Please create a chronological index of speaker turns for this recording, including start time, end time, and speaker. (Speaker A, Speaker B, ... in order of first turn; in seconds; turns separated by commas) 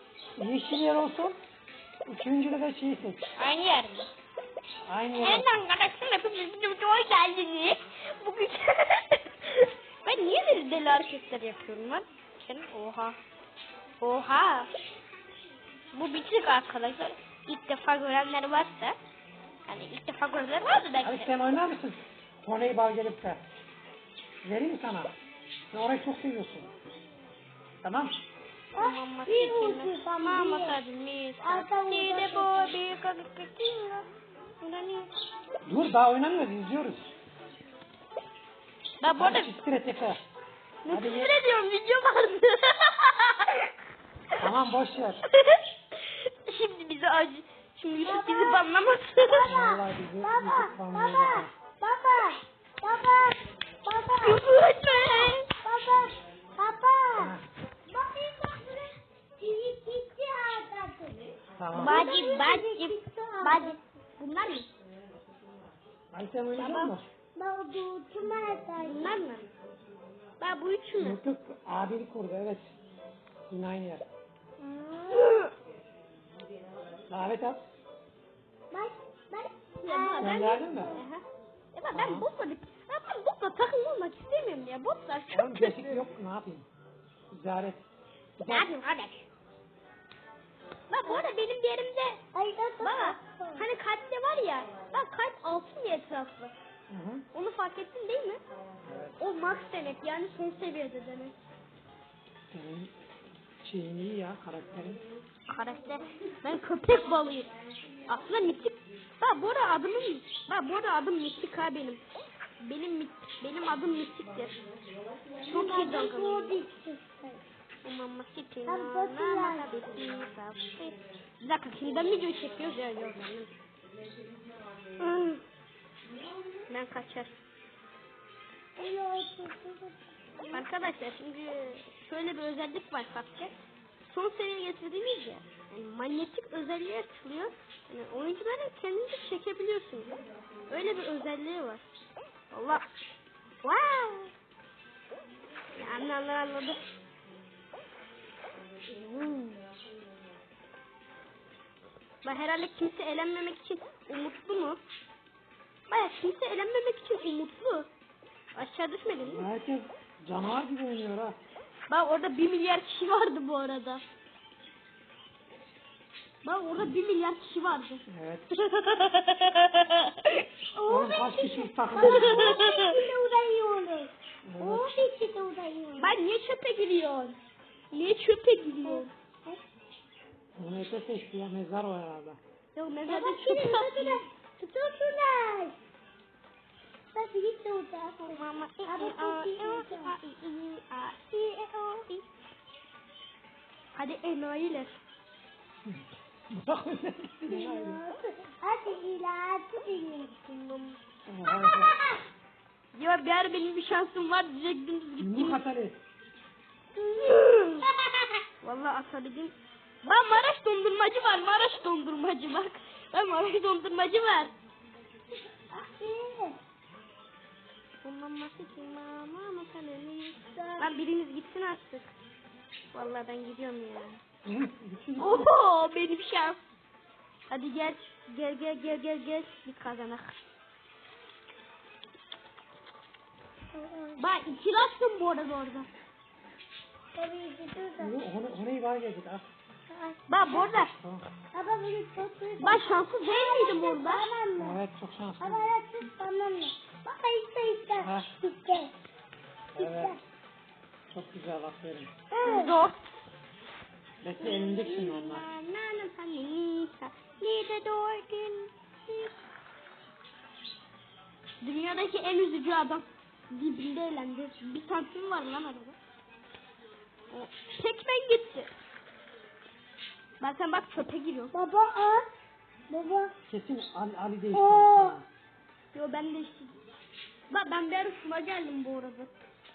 Speaker A: 0.4-1.4, Speaker A: 2.0-3.2, Speaker B: 3.4-4.1, Speaker A: 4.9-5.5, Speaker B: 5.2-13.2, Speaker B: 14.0-14.7, Speaker B: 15.9-19.0, Speaker B: 19.7-21.3, Speaker A: 21.0-23.4, Speaker A: 24.4-25.1, Speaker A: 25.7-26.7, Speaker A: 27.8-28.1, Speaker C: 28.7-30.8, Speaker B: 28.8-34.1, Speaker C: 31.4-32.8, Speaker B: 34.6-35.1, Speaker A: 35.6-37.1, Speaker B: 39.0-39.5, Speaker A: 39.1-40.2, Speaker B: 40.8-43.7, Speaker A: 40.9-41.3, Speaker A: 44.4-45.2, Speaker B: 45.3-49.5, Speaker C: 48.0-48.7, Speaker C: 49.3-57.4, Speaker A: 49.4-51.5, Speaker B: 54.1-55.5, Speaker A: 57.2-57.4, Speaker C: 57.9-61.2, Speaker A: 61.6-62.0, Speaker B: 61.7-64.7, Speaker C: 61.7-63.8, Speaker A: 66.1-67.0, Speaker B: 66.5-67.0, Speaker C: 67.3-69.2, Speaker B: 68.8-69.5, Speaker B: 70.4-71.2, Speaker A: 71.0-72.8, Speaker A: 73.5-74.0, Speaker C: 74.6-75.4, Speaker B: 75.1-75.5, Speaker A: 77.1-77.6, Speaker C: 78.7-81.1, Speaker B: 79.8-86.0, Speaker A: 80.2-80.9, Speaker A: 81.9-82.3, Speaker A: 85.3-86.7, Speaker A: 87.3-87.8, Speaker A: 88.4-88.8, Speaker B: 88.4-89.3, Speaker B: 90.9-92.2, Speaker C: 91.0-91.3, Speaker C: 92.3-93.7, Speaker B: 92.8-96.5, Speaker A: 96.9-97.2, Speaker B: 97.3-98.4, Speaker A: 98.8-99.2, Speaker B: 99.2-101.3, Speaker A: 102.5-102.9, Speaker A: 103.6-105.0, Speaker B: 105.5-107.5, Speaker B: 108.1-112.0, Speaker B: 112.6-114.5, Speaker B: 115.4-116.6, Speaker C: 115.4-117.4, Speaker B: 117.8-123.5, Speaker C: 118.7-119.7, Speaker B: 125.0-125.4, Speaker B: 126.7-127.3, Speaker C: 128.8-130.7, Speaker B: 130.5-133.5, Speaker B: 134.1-141.8, Speaker B: 142.5-142.8, Speaker B: 143.6-144.3, Speaker B: 145.7-146.8, Speaker B: 148.9-149.6, Speaker B: 152.2-154.8, Speaker B: 155.9-157.9, Speaker B: 158.5-159.4, Speaker A: 159.2-161.4, Speaker B: 161.9-164.0, Speaker B: 166.4-168.0, Speaker A: 168.1-168.6, Speaker B: 168.8-170.4, Speaker C: 170.8-174.1, Speaker A: 170.8-172.6, Speaker B: 172.0-173.1, Speaker A: 174.4-174.9, Speaker B: 174.6-174.9, Speaker C: 174.7-176.1, Speaker B: 176.0-177.4, Speaker B: 177.9-179.1, Speaker C: 178.8-179.6, Speaker A: 180.6-182.4, Speaker B: 182.7-184.2, Speaker C: 183.1-185.8, Speaker C: 187.1-190.2, Speaker B: 188.2-192.2, Speaker B: 193.9-195.0, Speaker A: 195.9-198.0, Speaker C: 197.5-200.5, Speaker B: 200.5-201.0, Speaker A: 201.2-202.0, Speaker C: 201.6-202.1, Speaker B: 202.9-205.6, Speaker A: 205.2-206.0, Speaker C: 206.9-207.9, Speaker B: 207.2-207.8, Speaker B: 208.6-214.5, Speaker C: 215.7-216.6, Speaker B: 218.0-222.1, Speaker C: 220.5-220.9, Speaker B: 222.9-224.2, Speaker A: 224.4-225.5, Speaker B: 225.2-226.6, Speaker B: 227.5-230.4, Speaker C: 233.7-234.2, Speaker B: 234.2-235.9, Speaker C: 237.1-238.2, Speaker A: 238.0-239.4, Speaker C: 239.9-240.7, Speaker B: 240.3-240.9, Speaker A: 240.7-241.2, Speaker C: 241.5-244.8, Speaker B: 242.6-244.3, Speaker A: 244.6-245.7, Speaker C: 245.4-248.9, Speaker A: 248.0-248.3, Speaker A: 249.7-250.2, Speaker C: 249.8-250.2, Speaker A: 251.1-252.1, Speaker C: 252.3-252.8, Speaker B: 252.4-253.2, Speaker A: 254.2-255.5, Speaker B: 254.4-259.3, Speaker B: 261.6-265.9, Speaker B: 267.3-268.7, Speaker B: 270.4-271.5, Speaker C: 271.5-272.2, Speaker C: 272.9-273.3, Speaker A: 273.5-275.2, Speaker C: 274.5-275.2, Speaker B: 275.9-276.8, Speaker B: 277.5-279.4